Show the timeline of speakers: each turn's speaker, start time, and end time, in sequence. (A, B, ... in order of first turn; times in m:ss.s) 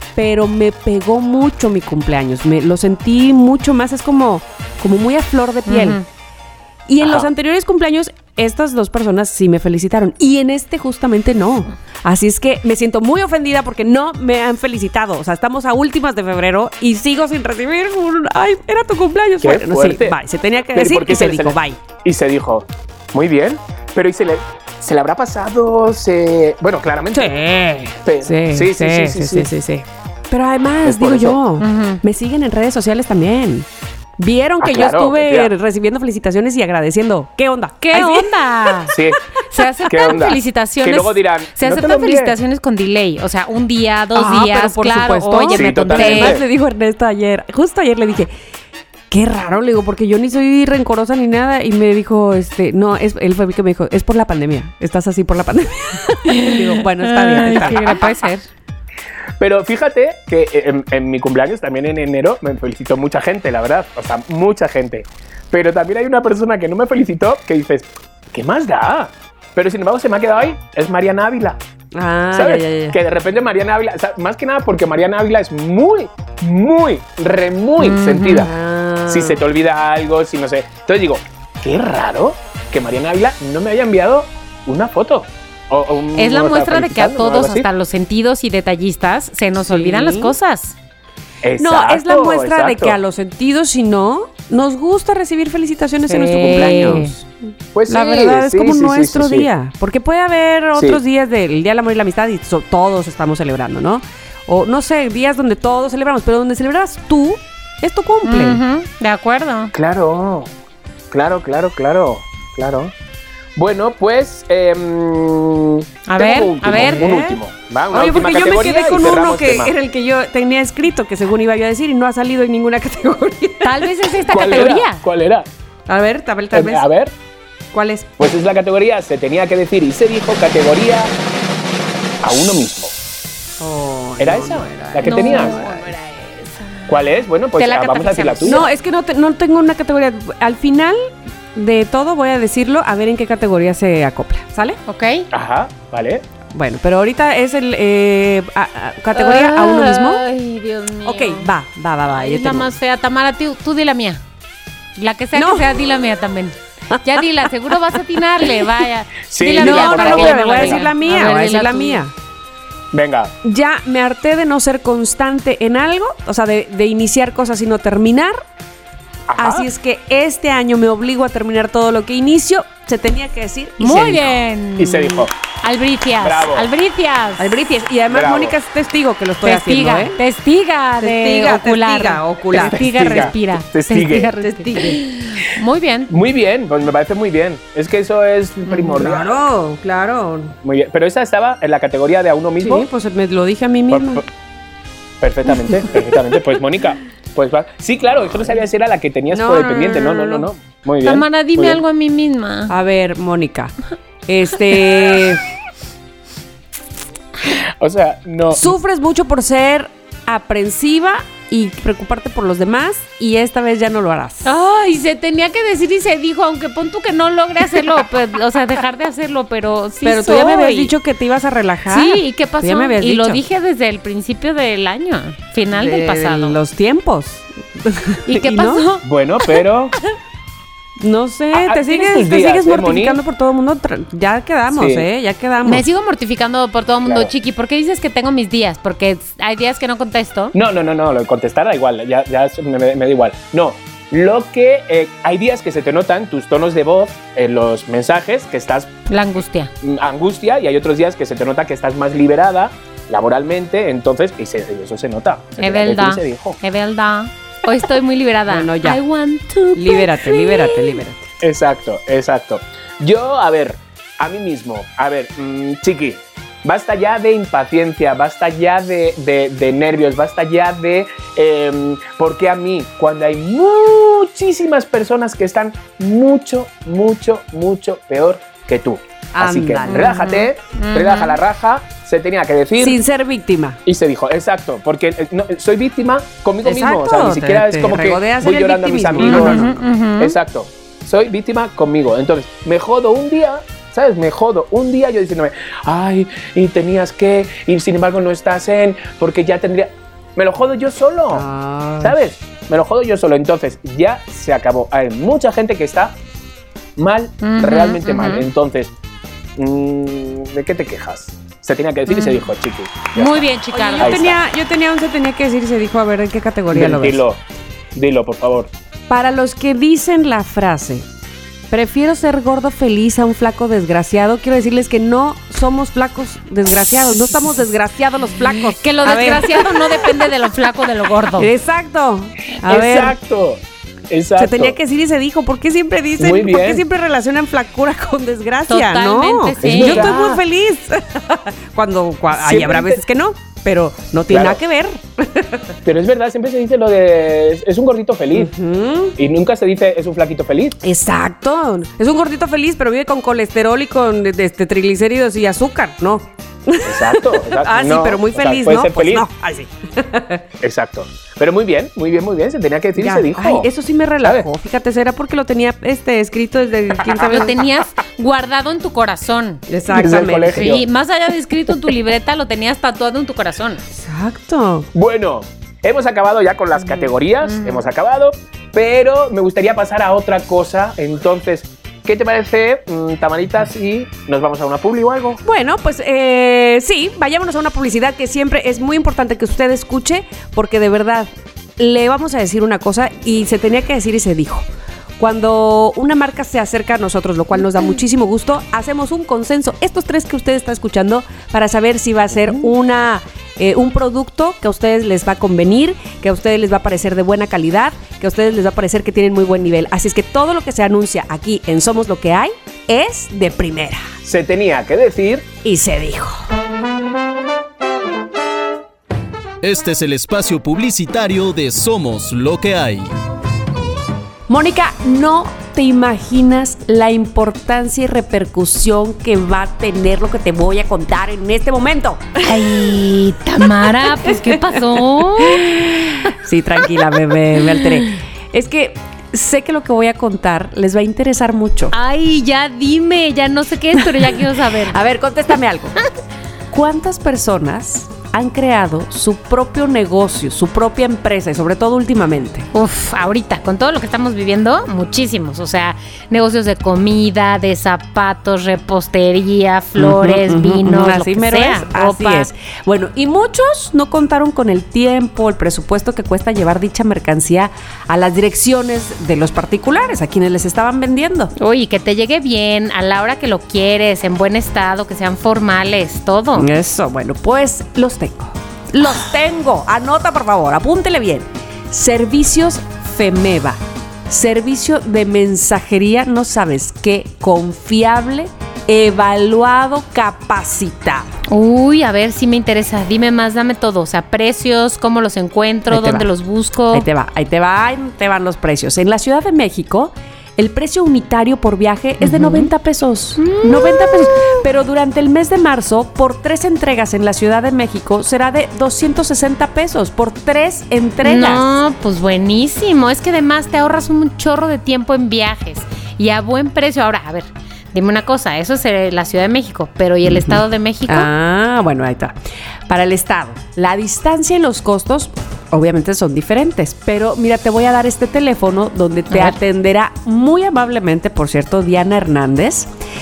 0:00.2-0:06.0 A
0:05.7-0:06.0 B
0:06.9-0:21.8 A
0:07.0-0:07.3 C
0:19.4-0:20.2 C
0:20.7-0:27.3 C
0:27.1-0:33.7 A
0:28.0-0:29.5 C
0:30.8-0:31.4 C
0:31.6-0:32.0 B
0:34.2-0:38.7 A
0:34.6-0:35.5 C
0:37.8-0:38.9 B
0:38.9-0:39.2 C
0:39.5-0:46.4 B
0:39.9-0:42.4 C
0:44.2-0:48.3 A
0:45.5-0:46.4 C
0:49.1-0:58.0 A
0:56.3-0:58.4 B
0:59.4-1:11.6 C
1:11.9-1:13.0 A
1:12.3-1:18.5 C
1:17.8-1:18.5 B
1:18.3-1:19.4 A
1:19.1-1:27.7 C
1:26.2-1:30.8 B
1:29.7-1:30.3 A
1:31.4-1:33.0 C
1:31.6-1:37.3 A
1:36.1-1:37.1 B
1:37.7-1:39.5 C
1:37.9-1:48.6 A
1:40.8-1:41.0 C
1:48.2-1:49.7 B
1:49.7-1:50.5 C
1:51.1-1:52.9 C
1:53.6-1:59.8 C
1:56.1-1:57.2 B
1:56.7-1:57.4 A
1:57.9-2:04.0 A
2:03.6-2:05.0 B
2:04.3-2:05.5 C
2:05.9-2:06.9 A
2:06.5-2:07.1 C
2:07.7-2:08.3 A
2:08.2-2:11.1 C
2:12.2-2:12.9 C
2:13.6-2:15.9 A
2:14.2-2:15.6 C
2:15.0-2:18.6 B
2:16.9-2:18.6 C
2:18.5-2:24.8 A
2:24.9-2:25.3 B
2:25.3-2:26.2 C
2:26.5-2:30.2 A
2:29.2-2:31.5 B
2:31.0-2:32.7 A
2:32.1-2:34.2 B
2:35.0-2:42.0 B
2:35.4-2:35.7 A
2:39.3-2:40.9 C
2:39.6-2:42.1 A
2:42.9-2:43.3 C
2:43.4-2:48.4 A
2:49.3-2:49.7 C
2:49.4-2:54.3 A
2:53.8-2:57.5 B
2:54.8-2:55.3 C
2:56.2-2:56.7 C
2:57.4-3:00.2 A
2:58.1-2:58.6 C
2:59.4-3:06.1 B
3:01.0-3:03.4 A
3:02.6-3:04.3 C
3:04.4-3:05.0 A
3:06.1-3:09.4 C
3:08.7-3:09.0 B
3:09.0-3:10.6 A
3:10.6-3:12.9 C
3:12.6-3:14.2 A
3:13.9-3:14.2 C
3:15.2-3:21.8 C
3:19.3-3:20.5 A
3:21.0-3:22.7 B
3:22.7-3:23.7 A
3:24.3-3:25.4 A
3:27.5-3:28.7 C
3:28.5-3:34.5 A
3:34.4-3:40.9 B
3:40.0-3:43.4 A
3:41.9-3:46.6 B
3:45.7-3:48.8 A
3:48.3-3:49.6 B
3:49.0-3:50.0 C
3:51.0-3:55.8 A
3:51.5-3:53.2 C
3:54.7-3:55.1 C
3:55.6-4:00.5 B
3:57.0-3:57.3 C
4:00.5-4:08.9 C
4:09.1-4:09.7 B
4:09.8-4:16.6 C
4:15.6-4:21.0 B
4:18.5-4:19.0 A
4:19.8-4:21.2 A
4:21.4-4:43.0 C
4:39.4-4:40.3 A
4:39.9-4:41.4 B
4:42.8-4:43.8 A
4:43.9-4:49.6 C
4:46.6-4:49.8 A
4:49.2-4:50.4 B
4:50.2-5:01.4 C
5:01.3-5:02.2 A
5:02.0-5:06.1 C
5:07.0-5:08.9 C
5:07.4-5:08.5 B
5:09.6-5:13.4 C
5:12.1-5:12.4 B
5:13.2-5:14.3 B
5:13.7-5:17.2 A
5:14.0-5:14.4 C
5:16.7-5:17.4 C
5:18.0-5:18.7 C
5:19.1-5:21.0 A
5:21.7-5:30.1 A
5:28.6-5:31.5 B
5:31.4-5:33.2 A
5:32.6-5:34.8 C
5:34.4-5:45.6 A
5:36.2-5:36.8 C
5:38.7-5:40.4 B
5:39.6-5:40.2 C
5:42.3-5:43.0 C
5:44.3-5:44.6 C
5:45.8-5:48.5 C
5:48.4-5:49.2 A
5:49.2-5:50.8 C
5:50.8-6:00.4 A
5:56.8-5:59.3 C
6:00.6-6:03.7 C
6:03.0-6:07.5 A
6:04.2-6:04.5 C
6:07.0-6:07.6 C
6:07.2-6:13.8 B
6:09.7-6:10.7 A
6:09.9-6:10.8 C
6:13.9-6:14.9 A
6:14.9-6:25.4 C
6:17.4-6:17.8 B
6:25.4-6:34.7 A
6:35.2-6:54.1 A
6:54.2-6:55.5 C
6:55.6-6:56.5 A
6:59.6-7:03.1 D
7:04.5-7:12.4 A
7:12.4-7:15.8 B
7:14.0-7:22.0 A
7:21.9-7:25.0 B
7:24.9-7:26.0 A
7:26.7-7:32.7 A
7:32.7-7:42.5 B
7:40.0-7:51.5 A
7:51.6-7:56.7 B
7:56.6-8:11.4 A
8:11.5-8:17.1 B
8:15.9-8:16.3 A
8:16.9-8:31.8 A
8:22.2-8:22.7 B
8:23.4-8:24.6 B
8:31.2-8:41.3 B
8:40.3-8:42.4 A
8:42.9-8:52.9 A
8:49.3-8:49.6 B